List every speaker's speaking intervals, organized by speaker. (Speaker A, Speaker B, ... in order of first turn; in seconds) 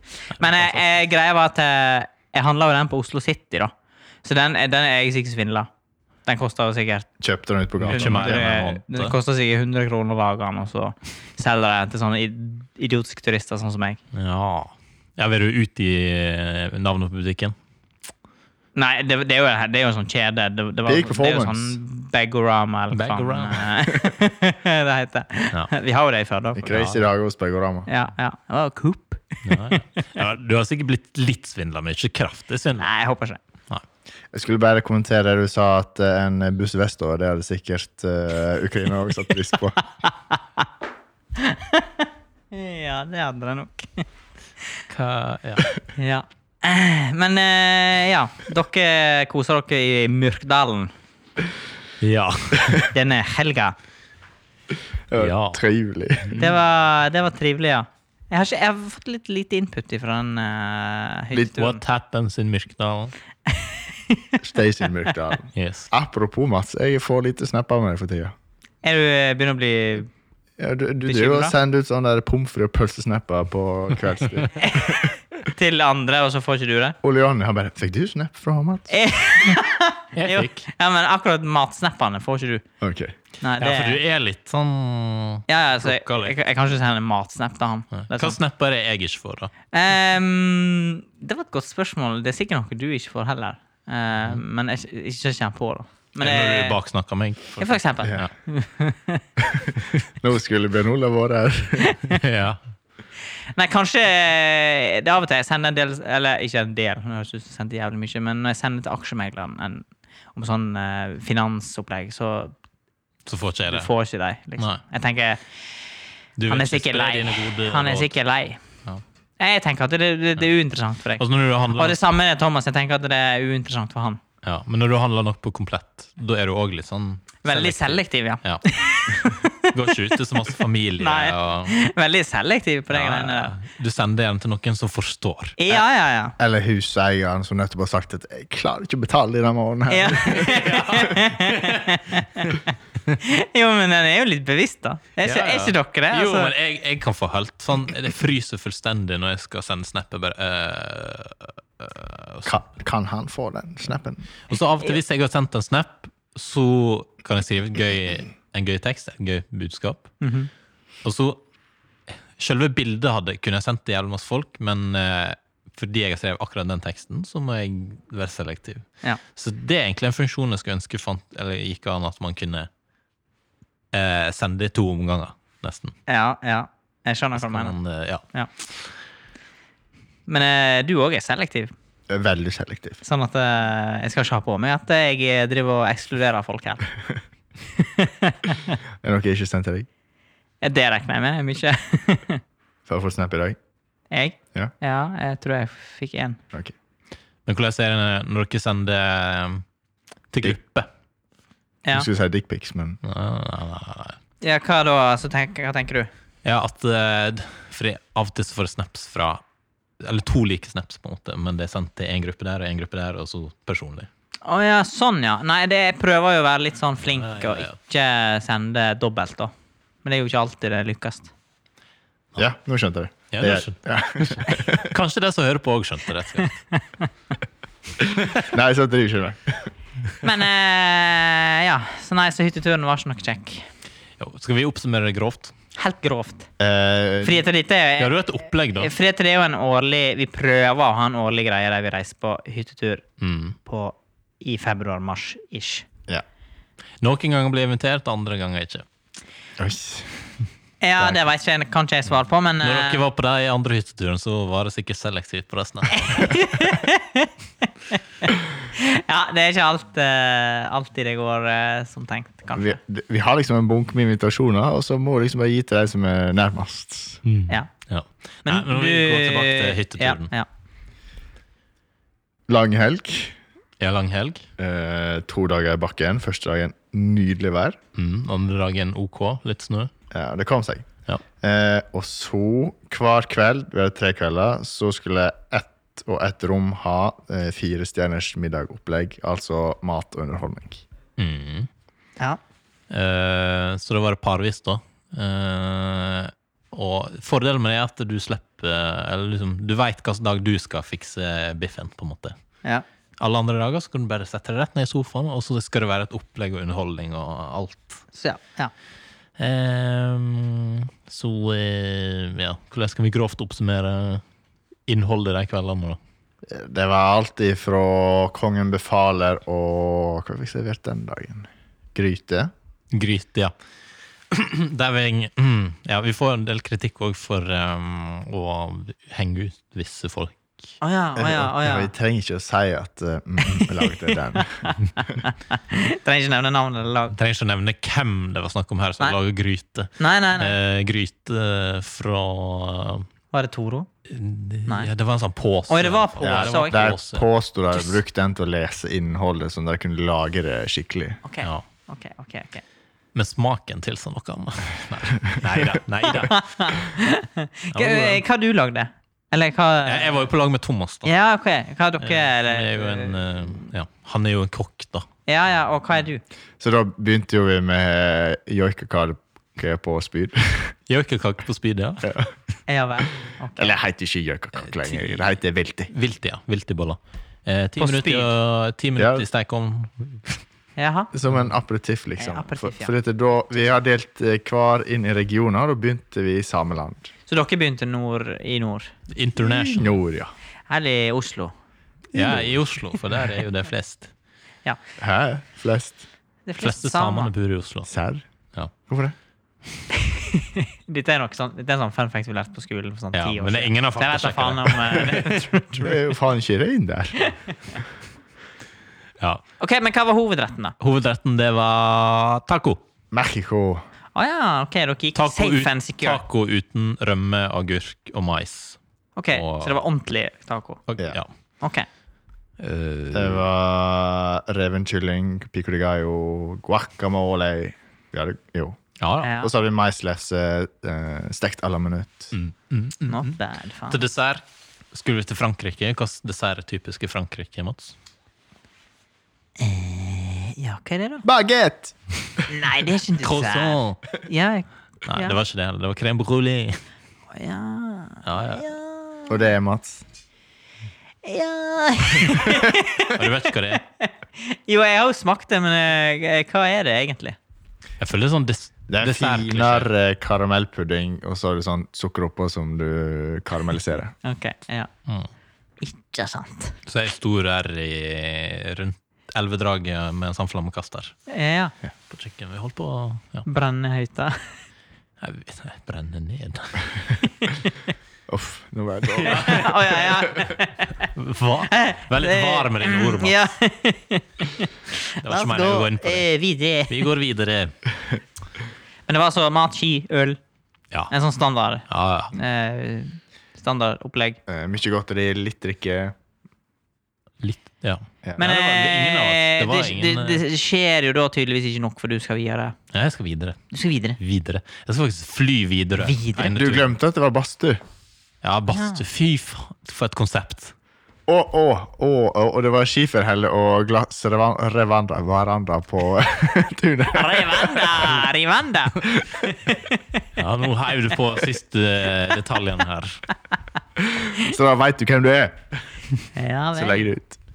Speaker A: 0.3-3.7, 4.2-5.7, 6.2-7.1, 7.8-14.0, 18.7-26.7, 27.9-29.8, 32.8-33.4, 40.0-40.6, 41.4-44.0, 46.0-50.9, 52.9-53.8, 56.4-61.8, 63.5-64.2, 68.8-70.1, 71.0-71.5, 74.6-77.0, 78.9-82.6, 83.4-84.0, 85.5-88.4, 89.7-96.8, 97.6-99.2, 101.8-102.2, 103.5-112.5, 113.7-115.4, 116.5-118.6, 119.4-124.2, 127.4-133.6, 135.6-136.3, 139.9-146.5, 160.2-160.5, 176.1-177.7, 180.3-181.7, 183.0-186.8, 187.8-188.8, 190.6-192.4, 194.1-196.4, 204.4-206.1, 214.4-219.5, 220.0-221.3, 226.4-227.1, 230.2-233.7, 235.8-236.5, 237.2-238.1, 238.7-243.0, 243.6-245.8, 250.8-253.0, 255.9-262.8, 268.4-270.5, 308.1-308.7, 330.8-331.9, 333.4-337.1, 340.0-340.6, 343.3-343.9, 345.7-346.8, 351.2-352.6, 356.1-360.2, 361.0-363.6, 365.3-366.2, 372.7-373.7, 377.8-378.3, 380.8-381.1, 382.2-382.9, 387.3-388.9, 390.7-391.5, 396.4-397.3, 399.9-406.0, 407.2-407.8, 409.6-410.7, 414.1-416.2, 419.1-420.8, 421.6-421.9, 429.2-429.5, 433.1-434.0, 439.6-441.2, 442.5-445.4, 447.3-449.4, 451.2-457.4, 464.2-464.9, 465.8-466.8, 471.3-471.7, 473.4-474.5, 477.4-477.7, 479.2-481.1, 481.7-487.1, 489.1-490.4, 491.1-494.4, 498.4-502.8, 503.7-504.2, 506.0-506.5, 508.7-509.0, 517.1-520.2, 526.3-527.1
Speaker B: 0.3-0.9, 7.8-9.1, 14.1-17.5, 22.9-23.7, 26.7-27.0, 29.4-32.9, 44.9-45.7, 52.0-52.8, 55.1-55.6, 56.2-56.5, 61.4-63.1, 65.5-65.9, 80.2-80.7, 83.6-86.3, 88.0-89.5, 96.2-98.3, 102.1-102.6, 113.2-113.9, 116.4-118.2, 121.2-122.0, 124.4-131.8, 132.9-135.8, 140.3-142.6, 145.2-152.6, 154.5-160.2, 161.0-161.4, 162.4-172.7, 173.9-175.9, 177.3-178.9, 197.4-199.6, 200.3-200.9, 203.0-204.2, 206.4-209.4, 210.0-214.1, 217.0-217.7, 223.3-226.6, 234.2-235.5, 238.0-238.9, 243.2-243.6, 247.0-248.8, 252.6-256.4, 267.2-270.3, 273.8-274.4, 277.9-279.9, 291.2-291.7, 292.9-302.3, 303.2-308.0, 309.4-314.2, 314.9-316.0, 322.9-323.5, 324.3-330.7, 337.1-343.1, 344.1-347.2, 353.1-356.9, 357.7-358.2, 359.9-361.1, 362.0-365.1, 370.9-372.1, 374.6-375.3, 375.9-380.4, 389.1-390.0, 392.1-394.1, 396.6-397.9, 403.1-405.5, 410.8-412.8, 415.1-418.8, 419.3-419.8, 420.9-421.3, 422.6-423.4, 429.0-429.3, 432.3-433.4, 433.9-437.9, 443.2-444.0, 445.1-446.8, 448.2-448.6, 453.0-453.8, 458.0-459.9, 466.9-471.1, 472.1-473.4, 475.2-477.0, 479.2-479.7, 481.1-483.5, 485.2-486.3, 486.9-487.7, 491.9-492.3, 497.4-500.4, 502.9-503.6, 504.2-506.9, 508.4-510.7, 520.4-523.2
Speaker C: 7.2-8.5, 20.9-21.8, 26.6-27.9, 34.3-39.8, 55.1-56.4, 64.4-68.3, 70.6-75.0, 77.0-78.9, 82.8-83.1, 99.4-101.9, 136.4-140.6, 152.4-154.2, 182.1-183.0, 189.0-189.9, 192.8-193.6, 201.9-203.0, 222.4-224.9, 228.4-229.7, 236.6-237.4, 249.6-250.1, 262.5-267.2, 272.5-273.4, 274.6-277.8, 280.1-280.9, 281.4-290.8, 316.4-322.5, 331.1-334.7, 346.2-351.2, 366.6-370.7, 372.0-372.3, 373.6-375.9, 379.0-379.2, 381.1-387.1, 389.7-390.3, 392.2-392.4, 395.0-396.0, 397.9-398.2, 398.9-399.1, 405.8-407.3, 413.1-413.8, 423.1-428.8, 429.4-432.3, 441.2-441.9, 449.3-450.0, 458.9-464.1, 478.3-479.7, 494.5-496.1, 506.4-507.8, 511.3-518.1, 519.0-519.4, 524.1-525.8, 526.7-527.4